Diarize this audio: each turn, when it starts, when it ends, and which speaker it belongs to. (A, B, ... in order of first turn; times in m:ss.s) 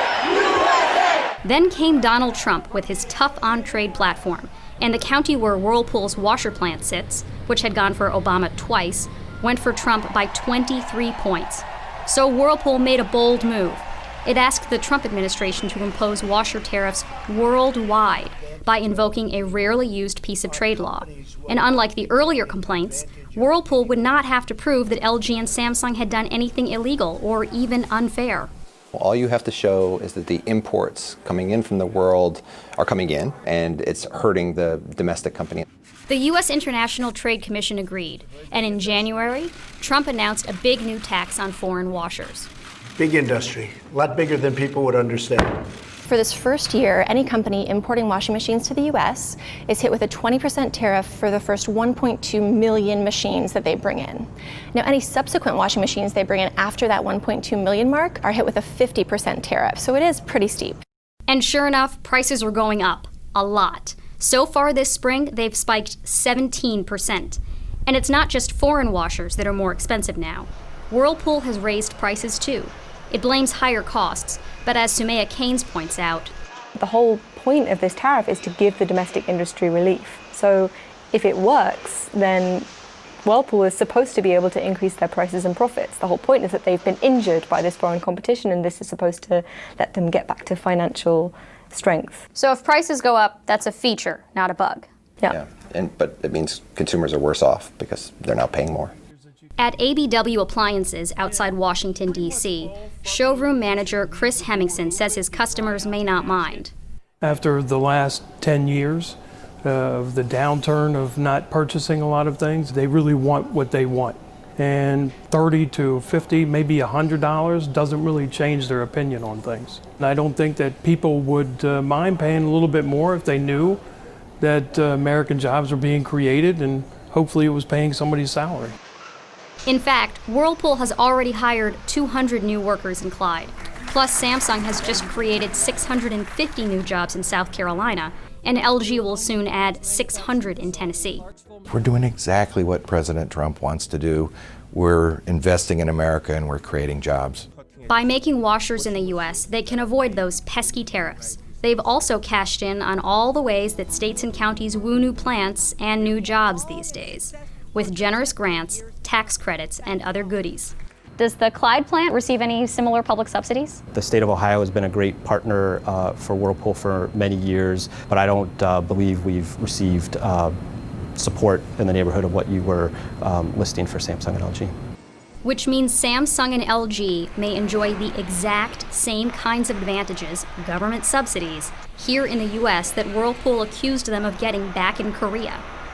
0:01.4-0:28.5 A
0:18.4-0:19.8 B
0:20.4-0:24.0 B
0:28.9-0:35.6 C
0:36.1-0:42.5 A
0:43.0-0:45.6 B
0:46.0-1:00.8 D
1:01.3-1:16.3 A
1:16.8-1:22.7 E
1:23.2-1:32.2 E
1:32.3-1:34.9 A
1:35.3-1:38.9 C
1:39.6-1:46.7 A
1:47.2-2:03.8 F
2:04.4-2:08.8 F
2:09.6-2:21.2 A
2:21.7-2:27.4 G
2:27.9-2:43.8 A
2:43.9-2:50.5 H
2:51.2-2:54.7 H
2:55.4-3:05.6 A